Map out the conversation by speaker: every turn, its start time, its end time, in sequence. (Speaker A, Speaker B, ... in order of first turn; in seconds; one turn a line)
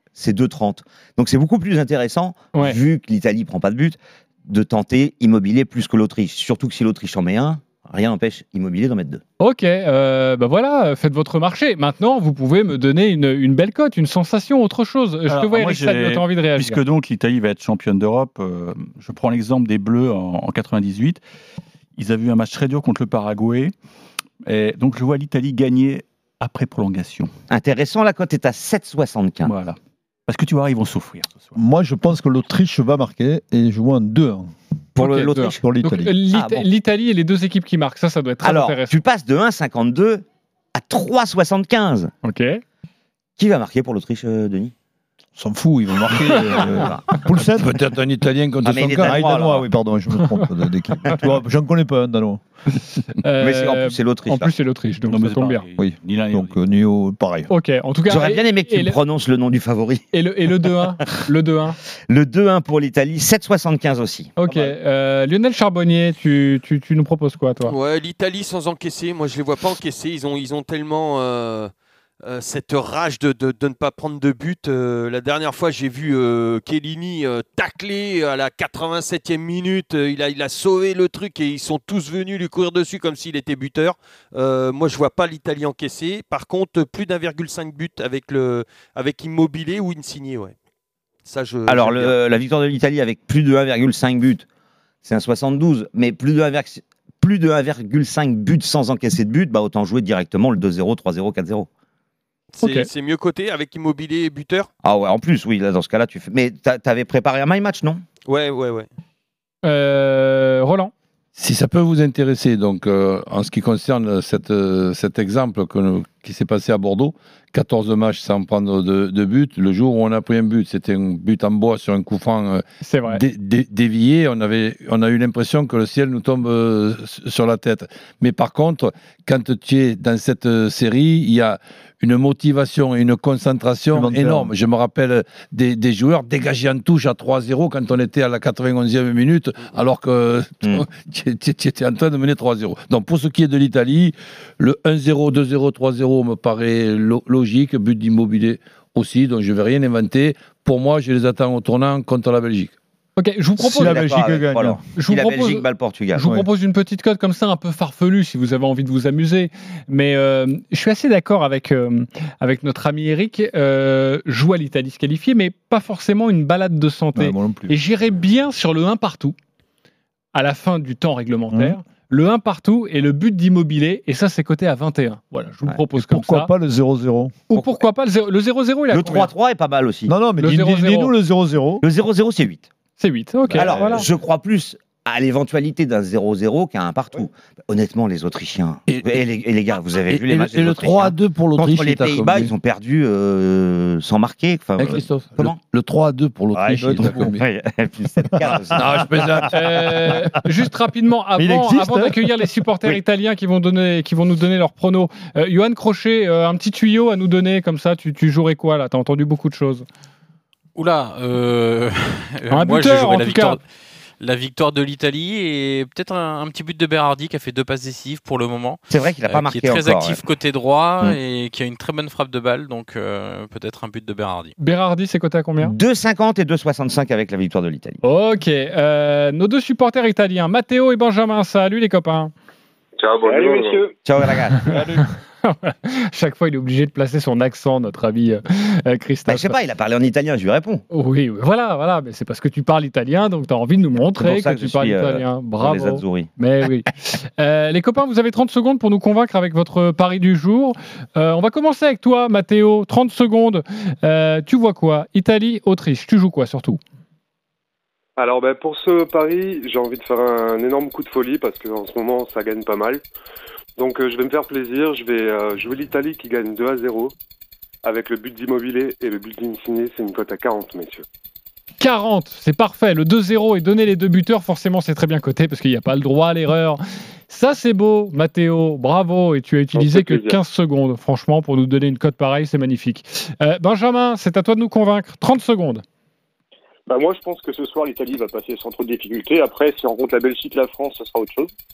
Speaker A: 0.1-9.2
Speaker B: 9.4-16.8
Speaker C: 15.3-21.2
Speaker C: 22.0-23.7
Speaker C: 24.4-27.3
Speaker A: 27.5-29.5
Speaker C: 29.4-31.6
Speaker D: 31.6-34.5
Speaker A: 35.0-35.6
Speaker B: 35.0-38.9
Speaker D: 35.4-36.1
Speaker A: 36.3-36.6
Speaker A: 38.4-42.1
Speaker B: 42.2-42.6
Speaker A: 43.4-44.7
Speaker D: 45.4-47.8
Speaker A: 46.7-47.0
Speaker E: 47.5-49.2
Speaker A: 48.6-49.6
Speaker D: 49.0-52.4
Speaker B: 53.2-55.6
Speaker A: 53.4-54.5
Speaker C: 55.0-56.6
Speaker D: 55.8-57.5
Speaker B: 57.5-59.0
Speaker A: 58.1-60.0
Speaker B: 60.1-61.8
Speaker A: 62.1-64.3
Speaker B: 64.4-67.7
Speaker F: 67.7-71.7
Speaker F: 72.2-90.5
Speaker F: 91.2-92.2
Speaker A: 91.7-94.5
Speaker A: 95.0-101.7
Speaker F: 102.5-104.7
Speaker B: 102.6-102.9
Speaker A: 104.8-108.0
Speaker F: 108.3-108.9
Speaker B: 109.6-110.9
Speaker E: 111.3-152.7
Speaker B: 122.8-123.2
Speaker D: 133.9-134.5
Speaker B: 153.2-154.2
Speaker D: 153.6-154.8
Speaker A: 153.6-156.3
Speaker B: 154.9-169.3
Speaker D: 167.1-167.7
Speaker B: 170.3-176.5
Speaker D: 171.5-171.8
Speaker D: 175.9-177.3
Speaker B: 177.5-179.3
Speaker A: 178.9-180.1
Speaker D: 180.1-181.8
Speaker B: 180.4-181.1
Speaker A: 181.8-182.7
Speaker B: 183.0-184.1
Speaker A: 183.5-195.6
Speaker E: 188.9-189.2
Speaker E: 190.1-192.5
Speaker E: 194.8-197.3
Speaker D: 196.5-197.4
Speaker A: 197.0-199.4
Speaker E: 198.8-199.6
Speaker B: 199.5-209.8
Speaker D: 201.4-202.5
Speaker G: 210.8-213.6
Speaker B: 212.5-213.6
Speaker G: 214.2-224.5
Speaker A: 218.9-220.2
Speaker B: 224.6-225.8
Speaker A: 225.6-228.0
Speaker B: 228.0-232.3
Speaker H: 233.2-233.9
Speaker A: 234.0-234.8
Speaker B: 235.4-239.6
Speaker A: 239.3-240.8
Speaker B: 240.9-256.8
Speaker A: 244.1-246.3
Speaker I: 258.2-263.0
Speaker I: 263.8-267.1
Speaker I: 267.8-271.0
Speaker B: 271.8-285.8
Speaker H: 286.9-291.5